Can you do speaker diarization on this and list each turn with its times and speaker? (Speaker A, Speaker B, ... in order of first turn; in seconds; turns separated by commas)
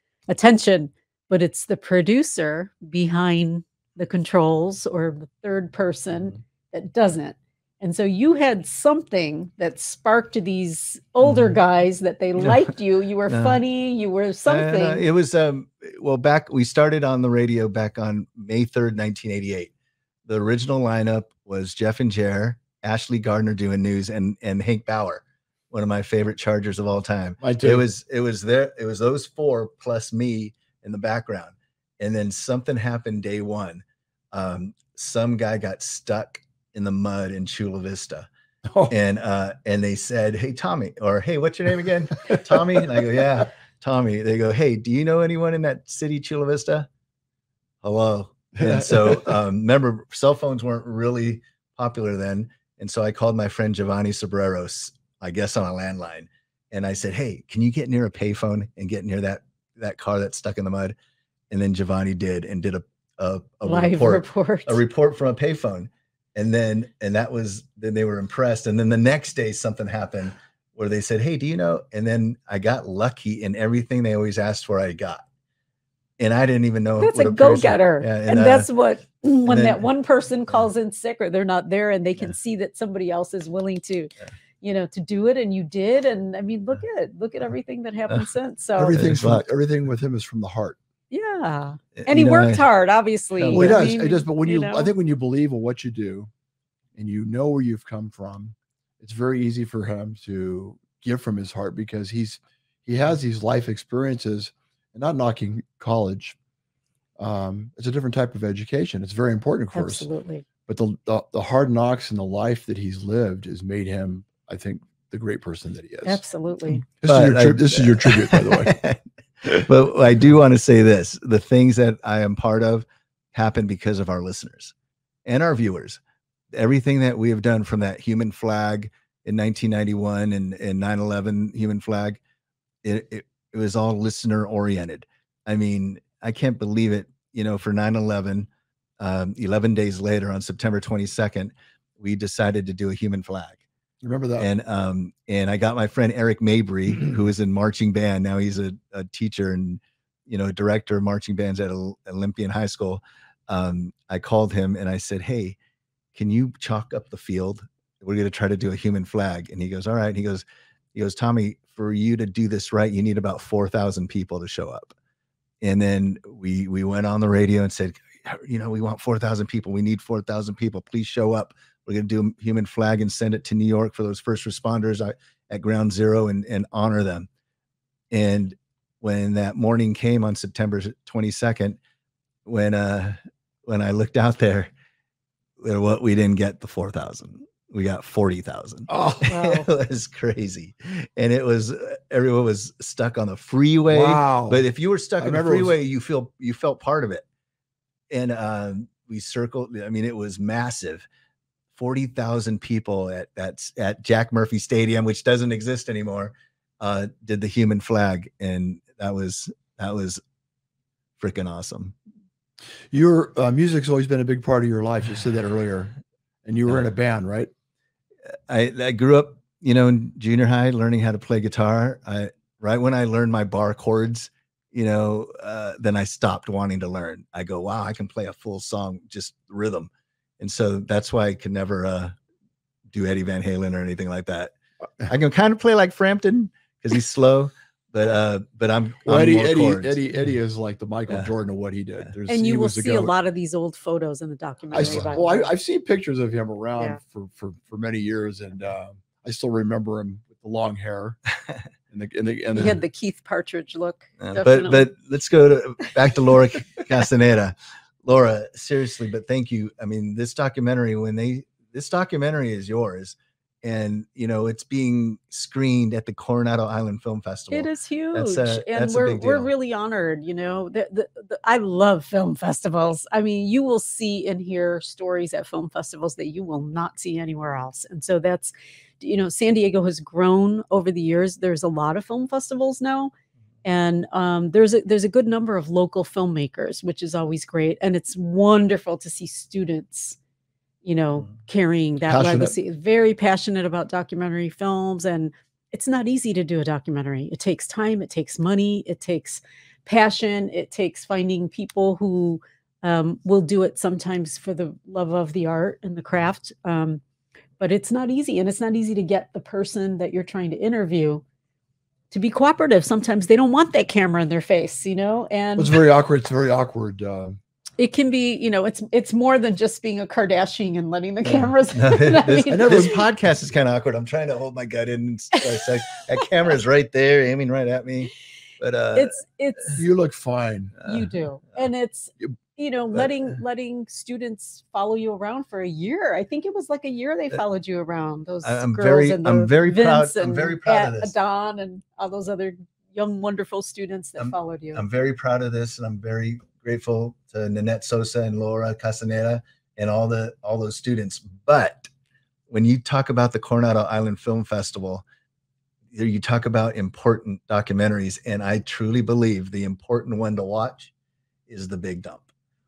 Speaker A: 0.3-15.0, Speaker B: 11.2-11.6, Speaker B: 12.4-12.7, Speaker B: 13.3-13.6, Speaker B: 14.5-19.7, Speaker B: 20.2-38.3, Speaker C: 27.4-27.8, Speaker C: 38.7-38.9, Speaker B: 38.9-46.9, Speaker C: 42.3-42.8, Speaker B: 47.8-60.9, Speaker C: 48.5-49.4, Speaker B: 61.5-75.2, Speaker A: 63.6-64.8, Speaker B: 76.2-78.7, Speaker A: 77.0-89.0, Speaker B: 79.5-79.8, Speaker C: 88.8-90.8, Speaker B: 88.9-89.5, Speaker A: 91.1-94.9, Speaker B: 92.0-92.6, Speaker B: 93.4-93.9, Speaker C: 93.5-96.3, Speaker C: 96.9-106.3, Speaker C: 107.2-110.1, Speaker A: 109.7-110.4, Speaker C: 110.7-116.2, Speaker A: 116.0-116.8, Speaker C: 116.8-118.8, Speaker B: 117.0-124.7, Speaker B: 125.2-126.0, Speaker B: 126.5-132.2, Speaker B: 132.8-143.6, Speaker C: 144.0-144.5, Speaker B: 144.4-155.6, Speaker B: 156.1-164.9, Speaker B: 165.6-177.3, Speaker B: 178.1-181.8, Speaker B: 182.4-184.7, Speaker B: 185.6-197.2, Speaker C: 188.9-189.3, Speaker A: 189.3-189.7, Speaker C: 193.9-194.6, Speaker C: 195.2-195.7, Speaker B: 198.1-201.1, Speaker B: 201.7-210.2, Speaker B: 211.2-211.9, Speaker C: 212.9-215.9, Speaker C: 216.4-217.5, Speaker B: 218.5-232.1, Speaker B: 232.9-234.5, Speaker B: 235.0-240.0, Speaker C: 239.1-243.1, Speaker A: 242.3-245.5, Speaker C: 244.7-251.2, Speaker B: 244.8-245.1, Speaker C: 251.9-252.8, Speaker A: 252.5-254.9, Speaker B: 254.2-269.5, Speaker A: 267.5-283.1, Speaker A: 283.6-290.2, Speaker A: 290.8-307.0, Speaker C: 292.1-292.5, Speaker A: 307.6-311.2, Speaker A: 312.1-315.8, Speaker C: 315.6-317.4, Speaker A: 317.8-323.0, Speaker B: 321.2-329.2, Speaker C: 322.5-323.1, Speaker A: 325.4-325.6, Speaker A: 328.9-329.9, Speaker C: 329.8-330.8, Speaker B: 330.8-331.1, Speaker A: 330.8-344.8, Speaker B: 338.4-341.1, Speaker B: 344.2-351.9, Speaker B: 352.5-355.0, Speaker B: 355.9-360.9, Speaker B: 361.5-362.2